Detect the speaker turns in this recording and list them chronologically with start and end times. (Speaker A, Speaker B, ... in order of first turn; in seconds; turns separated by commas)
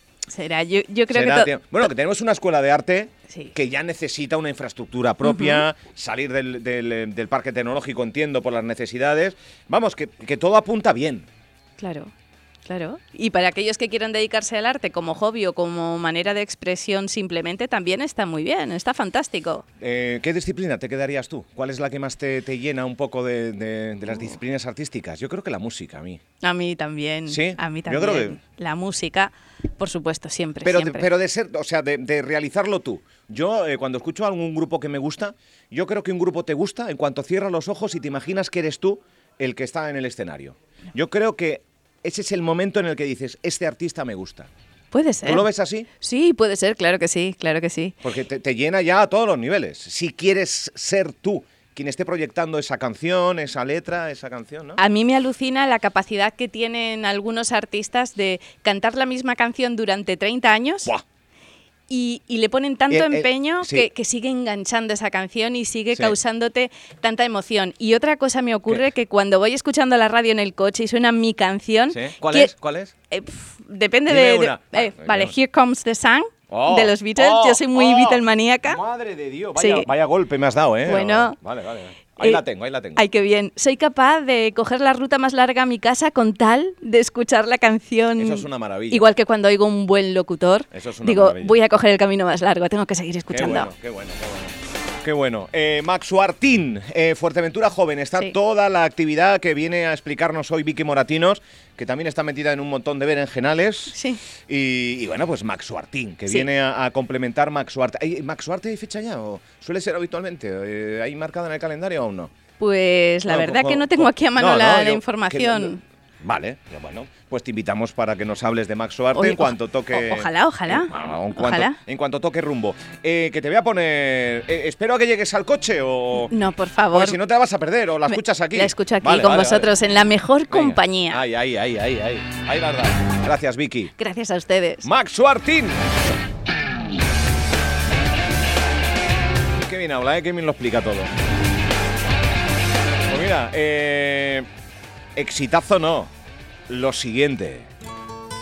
Speaker A: 0.3-1.6, Speaker B: 1.1-11.3, Speaker A: 5.2-5.6, Speaker A: 11.8-12.1, Speaker A: 12.7-19.6, Speaker B: 19.8-26.2, Speaker A: 26.4-31.1, Speaker B: 27.3-28.4, Speaker B: 30.6-44.5, Speaker A: 44.9-45.5, Speaker B: 45.2-45.9, Speaker A: 46.0-48.0, Speaker B: 48.0-54.8, Speaker A: 54.8-60.9, Speaker A: 61.9-72.5, Speaker B: 62.9-63.9, Speaker B: 71.9-72.9, Speaker A: 73.1-78.8, Speaker B: 74.1-75.4, Speaker B: 76.5-83.0, Speaker A: 79.6-79.9, Speaker A: 80.8-81.4, Speaker A: 82.2-82.4, Speaker A: 82.9-93.7, Speaker B: 88.2-89.1, Speaker B: 90.7-91.6, Speaker B: 93.3-112.3, Speaker A: 103.9-104.2, Speaker A: 112.6-115.8, Speaker B: 113.3-126.3, Speaker A: 119.1-121.8, Speaker A: 126.3-127.2, Speaker B: 126.9-129.7, Speaker A: 128.1-131.2, Speaker B: 130.5-133.9, Speaker A: 134.0-134.9, Speaker B: 134.8-135.9, Speaker B: 139.5-141.1, Speaker B: 143.1-144.5, Speaker B: 145.2-146.1, Speaker B: 146.7-147.7